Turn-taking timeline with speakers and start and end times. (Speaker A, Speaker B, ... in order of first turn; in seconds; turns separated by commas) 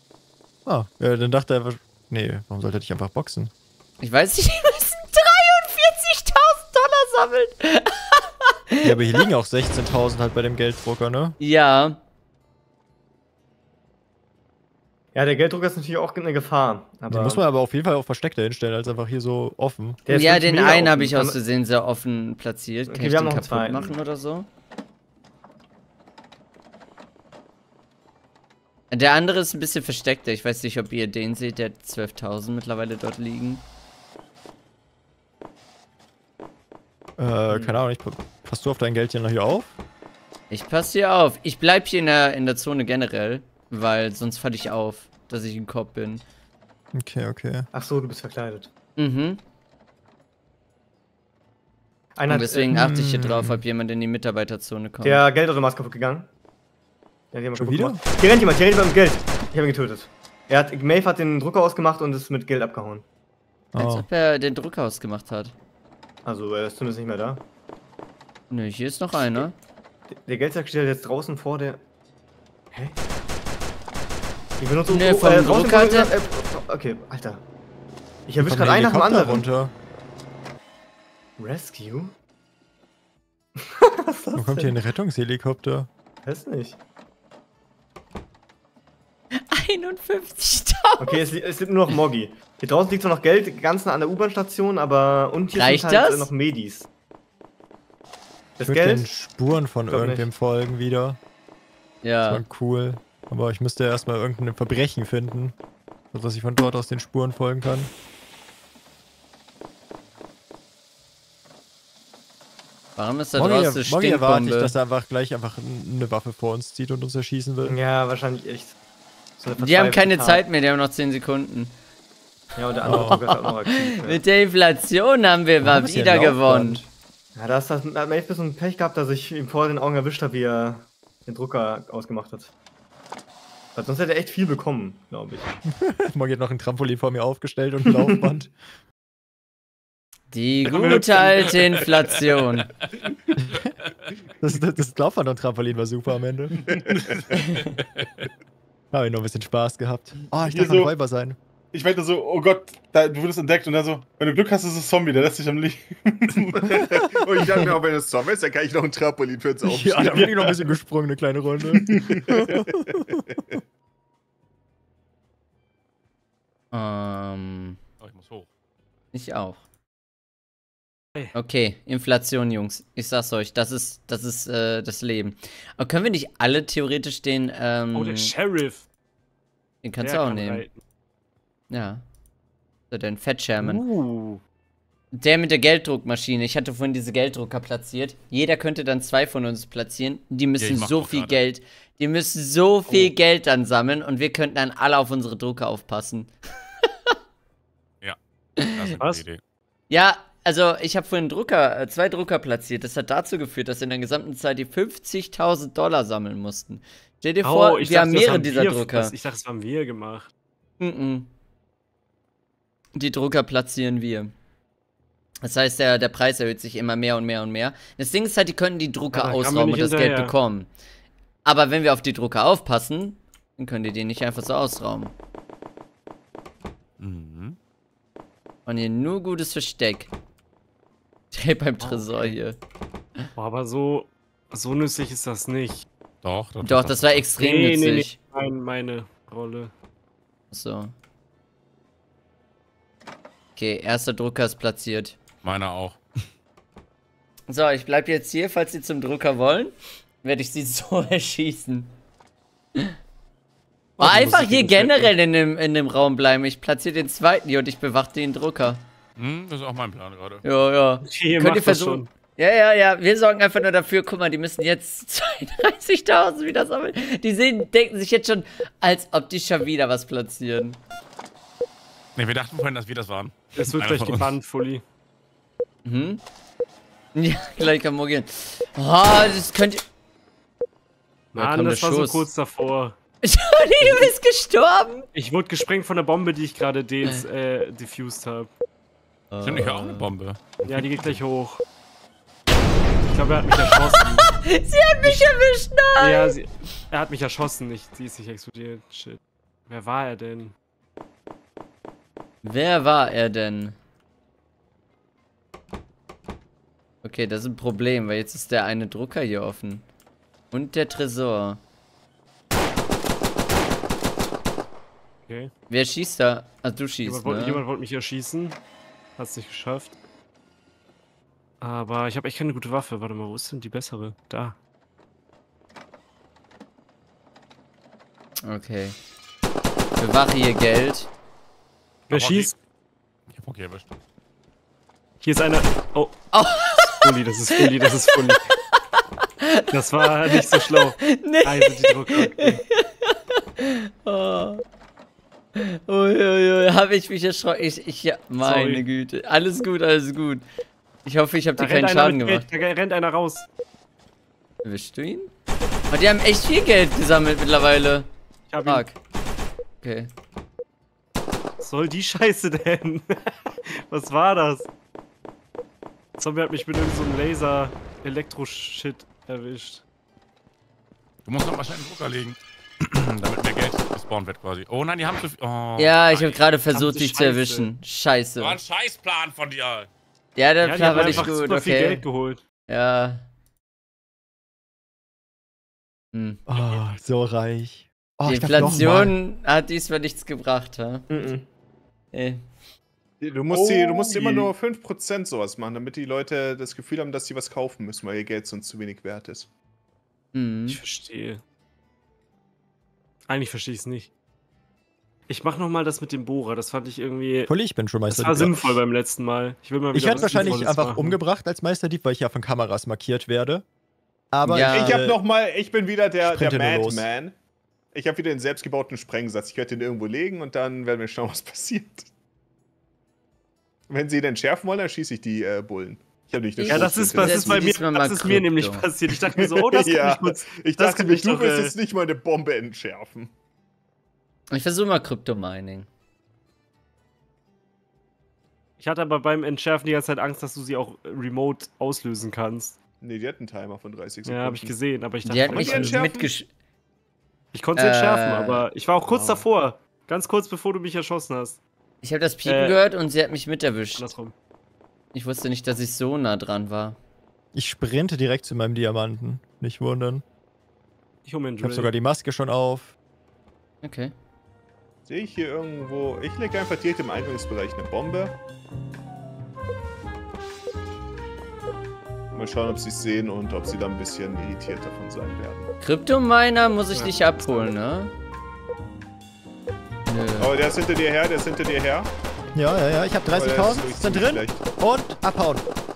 Speaker A: 0.7-3.5, Speaker B: 4.0-8.9, Speaker A: 8.8-11.3, Speaker B: 11.4-12.0, Speaker C: 15.1-17.4, Speaker A: 17.1-20.0, Speaker C: 20.1-21.4, Speaker B: 20.1-24.5, Speaker C: 22.9-23.9, Speaker B: 28.9-33.6, Speaker A: 37.2-39.8, Speaker B: 40.5-46.2, Speaker A: 46.9-47.7, Speaker C: 47.7-48.7, Speaker B: 49.0-49.4, Speaker C: 52.2-52.8, Speaker B: 52.3-55.2, Speaker A: 52.7-53.6, Speaker C: 55.0-56.3, Speaker C: 57.3-63.0, Speaker A: 57.6-58.0, Speaker A: 63.7-64.1, Speaker B: 63.8-65.5, Speaker C: 66.2-67.4, Speaker B: 68.5-69.5, Speaker C: 70.1-71.8, Speaker C: 72.7-73.0, Speaker C: 74.6-77.4, Speaker B: 74.9-76.1, Speaker C: 78.3-79.5, Speaker A: 78.4-79.7, Speaker C: 81.4-82.1, Speaker C: 83.6-84.7, Speaker A: 84.3-85.9, Speaker C: 86.2-86.8, Speaker B: 89.3-91.3, Speaker C: 91.0-96.9, Speaker B: 95.5-96.3, Speaker C: 98.6-99.1, Speaker A: 98.6-101.2, Speaker C: 99.9-100.3, Speaker B: 102.0-102.4, Speaker A: 102.2-105.5, Speaker A: 106.1-107.9, Speaker B: 113.0-114.7, Speaker A: 113.3-117.8, Speaker C: 117.6-118.8, Speaker C: 119.4-120.4, Speaker B: 119.6-121.7, Speaker C: 122.5-124.2, Speaker A: 122.8-123.2, Speaker B: 122.9-126.8, Speaker A: 125.6-126.9, Speaker C: 127.3-132.5, Speaker C: 133.7-135.5, Speaker A: 135.7-138.5, Speaker C: 138.1-138.3, Speaker B: 140.3-142.7, Speaker D: 140.7-141.5, Speaker A: 143.4-143.7, Speaker A: 144.4-146.6, Speaker E: 146.7-147.2, Speaker F: 146.7-147.1, Speaker G: 147.7-148.3, Speaker A: 148.9-151.4, Speaker E: 150.4-150.9, Speaker E: 151.7-156.8, Speaker F: 156.6-160.5, Speaker A: 159.6-163.0, Speaker E: 161.9-162.2, Speaker F: 162.3-163.6, Speaker B: 166.7-167.8, Speaker G: 168.0-168.5, Speaker B: 169.1-169.6, Speaker B: 171.3-178.3, Speaker D: 177.9-178.8, Speaker B: 179.8-180.6, Speaker D: 180.0-180.8, Speaker B: 181.7-182.0, Speaker B: 182.9-183.8, Speaker D: 183.6-184.4, Speaker B: 185.1-196.3, Speaker G: 190.6-191.4, Speaker B: 196.8-197.1, Speaker B: 198.6-198.9, Speaker G: 198.7-199.4, Speaker B: 199.9-209.1, Speaker D: 207.4-210.3, Speaker B: 210.8-211.3, Speaker B: 212.9-214.3, Speaker B: 215.4-220.7, Speaker D: 219.1-220.3, Speaker B: 221.4-225.1, Speaker G: 227.0-227.6, Speaker B: 228.7-230.1, Speaker B: 231.3-232.6, Speaker D: 231.8-232.3, Speaker D: 233.3-235.8, Speaker G: 236.2-237.3, Speaker B: 236.6-238.2, Speaker D: 237.4-239.7, Speaker B: 240.5-240.9, Speaker B: 243.6-245.2, Speaker G: 245.4-246.0, Speaker B: 247.5-251.9, Speaker D: 254.0-255.1, Speaker B: 254.0-258.8, Speaker G: 259.2-260.4, Speaker B: 260.4-270.8, Speaker D: 261.0-262.1, Speaker G: 272.1-274.3, Speaker D: 273.6-274.8, Speaker B: 275.8-276.2, Speaker B: 277.1-279.8, Speaker D: 281.3-283.0, Speaker B: 281.3-282.3, Speaker B: 283.2-285.1, Speaker D: 283.8-284.1, Speaker D: 285.1-288.5, Speaker B: 289.3-290.1, Speaker G: 289.4-291.2, Speaker D: 290.6-291.6, Speaker D: 293.1-294.3, Speaker B: 294.3-296.3, Speaker D: 296.0-300.5, Speaker B: 302.4-303.7, Speaker B: 307.0-309.8, Speaker B: 310.5-311.6, Speaker B: 315.7-317.6, Speaker D: 317.0-318.6, Speaker D: 319.2-320.0, Speaker D: 321.6-324.6, Speaker B: 328.4-328.9, Speaker B: 330.0-331.1, Speaker G: 332.1-332.5, Speaker D: 332.1-332.5, Speaker G: 333.3-333.9, Speaker D: 335.2-338.4, Speaker B: 336.3-337.6, Speaker B: 338.9-339.6, Speaker D: 339.7-342.6, Speaker B: 340.2-344.6, Speaker B: 345.6-350.4, Speaker D: 348.4-348.8, Speaker B: 351.0-352.4, Speaker D: 351.6-353.5, Speaker B: 354.6-355.3, Speaker B: 355.9-358.1, Speaker D: 358.5-358.8, Speaker B: 358.6-358.9, Speaker B: 359.8-360.1, Speaker D: 361.6-363.3, Speaker D: 363.9-364.7, Speaker D: 366.2-369.8, Speaker G: 371.2-376.4, Speaker B: 375.8-378.6, Speaker D: 376.7-377.7, Speaker G: 378.4-379.9, Speaker B: 380.4-382.0, Speaker D: 380.6-382.4, Speaker G: 380.9-381.3, Speaker B: 382.7-383.2, Speaker B: 386.1-386.4, Speaker A: 386.5-389.1, Speaker B: 388.3-391.1, Speaker C: 391.1-391.4, Speaker B: 392.1-392.4, Speaker F: 393.2-399.5, Speaker E: 393.5-394.5, Speaker B: 400.3-400.8, Speaker D: 400.7-401.4, Speaker D: 403.3-404.1, Speaker D: 405.3-407.5, Speaker A: 407.5-408.8, Speaker D: 408.1-411.2, Speaker A: 409.9-413.6, Speaker A: 414.3-415.2, Speaker B: 414.4-415.1, Speaker F: 414.6-417.4, Speaker A: 416.2-417.0, Speaker F: 417.9-422.1, Speaker F: 423.9-427.8, Speaker B: 426.6-428.9, Speaker D: 426.7-431.7, Speaker F: 429.1-433.3, Speaker B: 434.5-435.9, Speaker D: 438.8-442.8, Speaker F: 443.0-444.8, Speaker D: 444.2-446.0, Speaker B: 445.2-446.5, Speaker F: 445.5-446.3, Speaker D: 447.5-451.6, Speaker B: 447.8-448.6, Speaker B: 452.0-454.0, Speaker D: 452.4-452.8, Speaker D: 454.0-454.3, Speaker B: 455.1-457.0, Speaker A: 457.5-460.2, Speaker D: 461.2-461.9, Speaker A: 461.6-462.9, Speaker B: 463.8-464.1, Speaker F: 465.1-468.3, Speaker F: 472.3-475.7, Speaker B: 475.8-478.1, Speaker B: 480.1-480.6, Speaker F: 480.4-482.1, Speaker A: 482.5-485.7, Speaker F: 483.3-484.6